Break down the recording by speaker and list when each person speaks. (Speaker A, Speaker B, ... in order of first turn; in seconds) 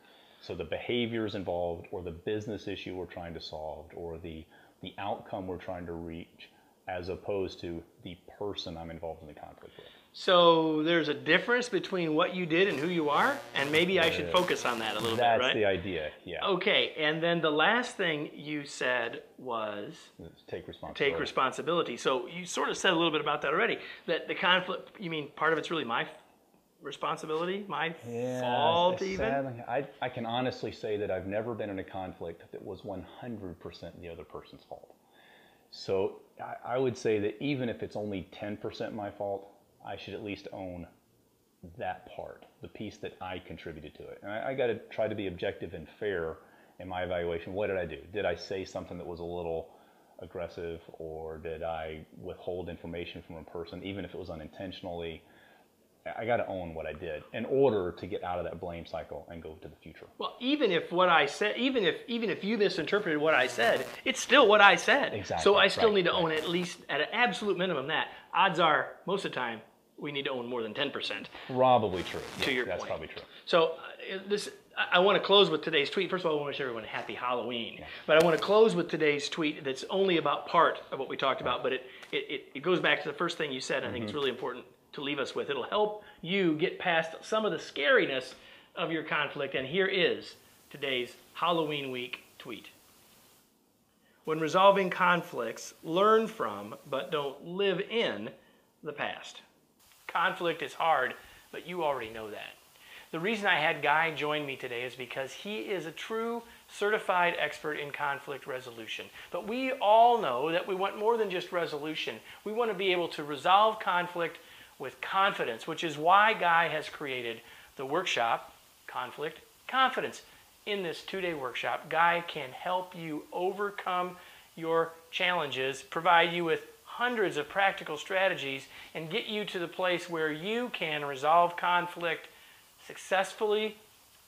Speaker A: 0.4-9.9, 13.9-14.4, 15.0-16.5, 20.2-21.3, 28.0-35.0, 35.7-40.9, 41.6-55.2, 56.0-60.1, 65.1-66.3, 71.3-73.3, 83.8-84.2
Speaker B: 10.1-15.6, 16.4-20.1, 20.9-26.1, 26.8-29.4, 60.2-71.3, 72.4-92.7, 94.2-99.4, 100.1-102.6, 103.1-133.8